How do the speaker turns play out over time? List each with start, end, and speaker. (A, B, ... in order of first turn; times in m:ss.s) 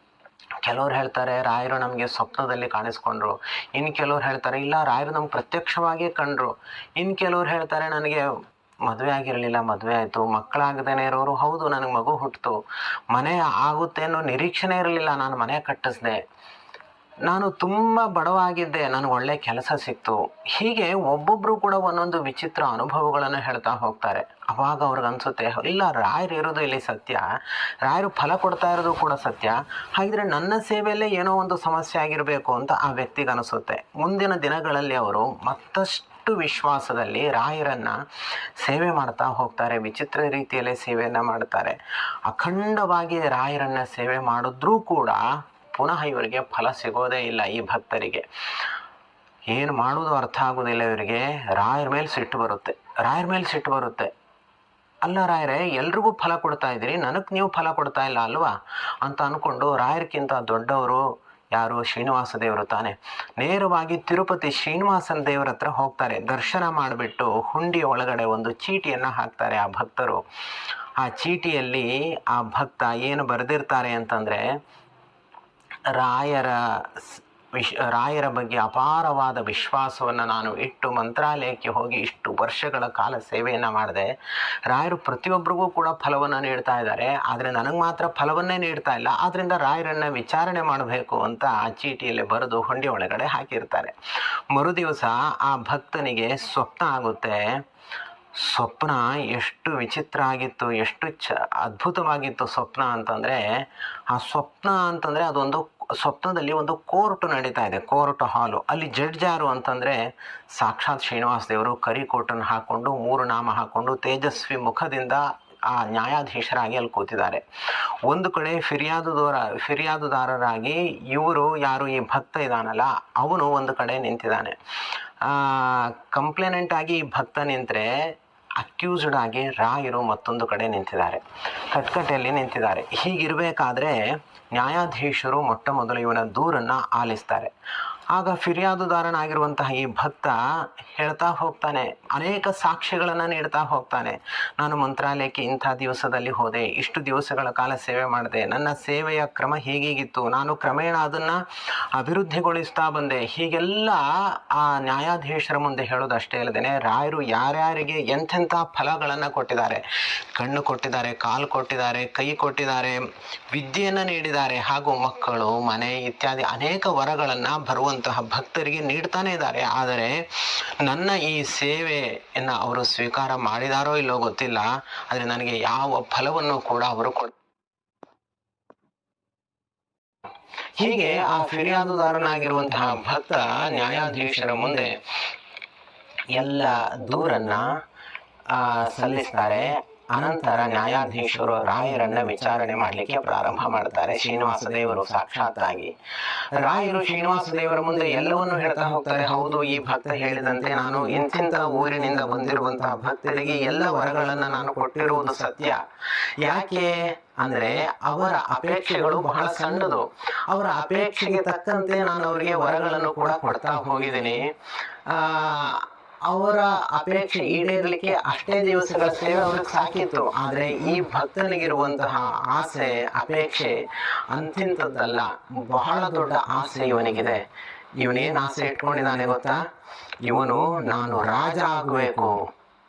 0:00.6-0:08.3 A
0:08.9-0:12.6 A
0:13.1-0:16.2 A
0:17.3-0:27.2 A
0:27.8-0:38.0 A
0:38.6-0:45.2 A
0:45.8-0:48.2 A
0:49.5-0:54.1 A
0:55.0-1:10.2 A
1:11.0-1:14.4 A
1:15.9-1:24.1 A
1:24.7-1:33.9 A
1:34.5-1:37.4 A
1:38.4-1:43.4 A
1:44.1-1:50.0 A
1:50.6-1:57.4 A
1:58.1-2:04.6 A
2:05.2-2:07.9 A
2:08.6-2:14.0 A
2:14.5-2:17.5 A
2:18.1-2:20.4 A
2:21.0-2:31.4 A
2:31.9-2:39.8 A
2:40.4-2:43.0 A
2:43.5-2:57.3 A
3:00.8-3:04.9 A
3:06.3-3:07.7 A
3:08.5-3:25.8 A
3:26.4-3:34.4 A
3:35.1-3:43.8 A
3:44.3-3:47.4 A
3:48.0-3:49.6 A
3:50.2-3:52.3 A